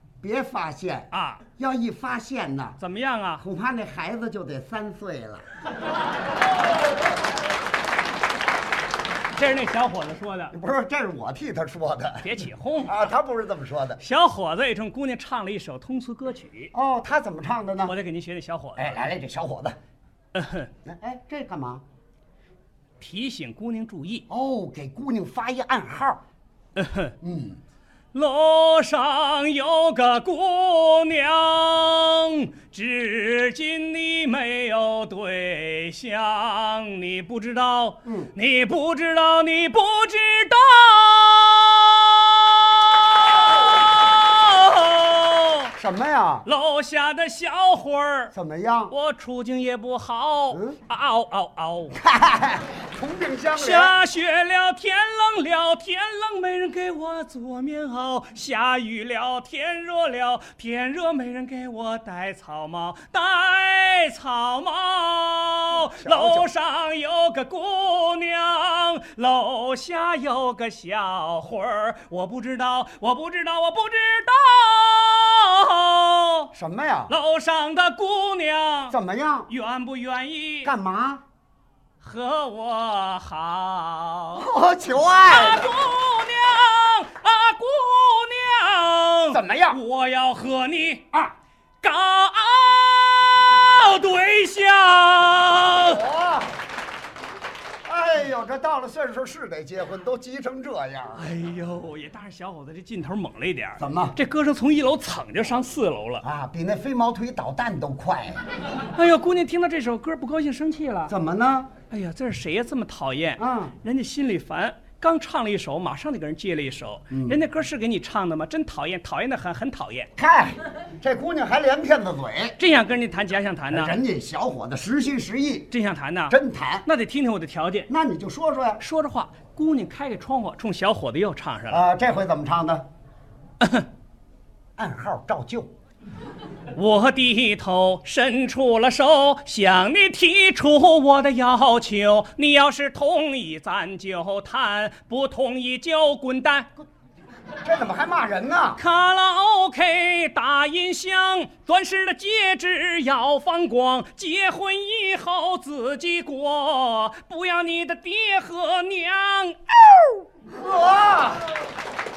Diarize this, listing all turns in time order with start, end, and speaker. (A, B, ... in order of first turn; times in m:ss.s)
0:00.2-0:02.8 A
0:01.1-0:01.4 B
0:02.8-0:03.4 B
0:03.4-0:05.4 A
0:09.3-0:10.5 B
0:10.5-0:12.3 A
0:12.2-0:13.1 B
0:12.9-0:14.0 A
0:14.0-0:16.7 B
0:16.7-0:17.9 A
0:17.9-0:19.0 B
0:18.8-0:19.8 A
0:20.3-0:20.7 B
0:20.8-0:21.8 A
0:23.0-0:24.3 B
0:24.3-0:26.2 A
0:26.8-0:27.2 B
0:27.2-0:27.6 A
0:28.1-0:45.7 B
0:38.0-0:38.3 A
0:45.8-0:46.5 A
0:46.5-0:48.3 B
0:48.3-0:48.9 A
0:48.9-0:52.0 B
0:50.5-0:50.8 A
0:52.0-0:54.0 A
0:53.6-1:16.5 B
1:06.0-1:06.5 A
1:16.5-1:17.2 A
1:17.1-1:19.0 B
1:18.9-1:19.5 A
1:19.5-1:20.7 B
1:20.6-1:21.2 A
1:22.0-1:24.5 B
1:24.4-1:25.8 A
1:25.2-1:31.1 B
1:29.3-1:29.8 A
1:31.8-1:36.0 B
1:35.7-1:36.5 A
1:37.8-1:41.3 A
1:41.2-1:46.2 B
1:43.8-1:44.2 A
1:46.2-1:48.4 A
1:49.0-1:51.1 B
1:51.1-1:51.7 A
1:51.9-2:00.1 B
1:53.4-1:53.7 A
1:57.1-1:57.4 A
2:00.2-2:02.6 A
2:02.6-2:04.0 B
2:03.7-2:05.7 A
2:05.7-2:07.9 B
2:06.3-2:06.9 A
2:07.9-2:08.8 A
2:08.8-2:11.8 B
2:11.7-2:12.8 A
2:13.6-2:13.9 B
2:14.8-2:15.7 A
2:16.7-2:26.7 B
2:27.6-2:28.8 A
2:28.8-2:40.3 B
2:40.5-2:41.5 A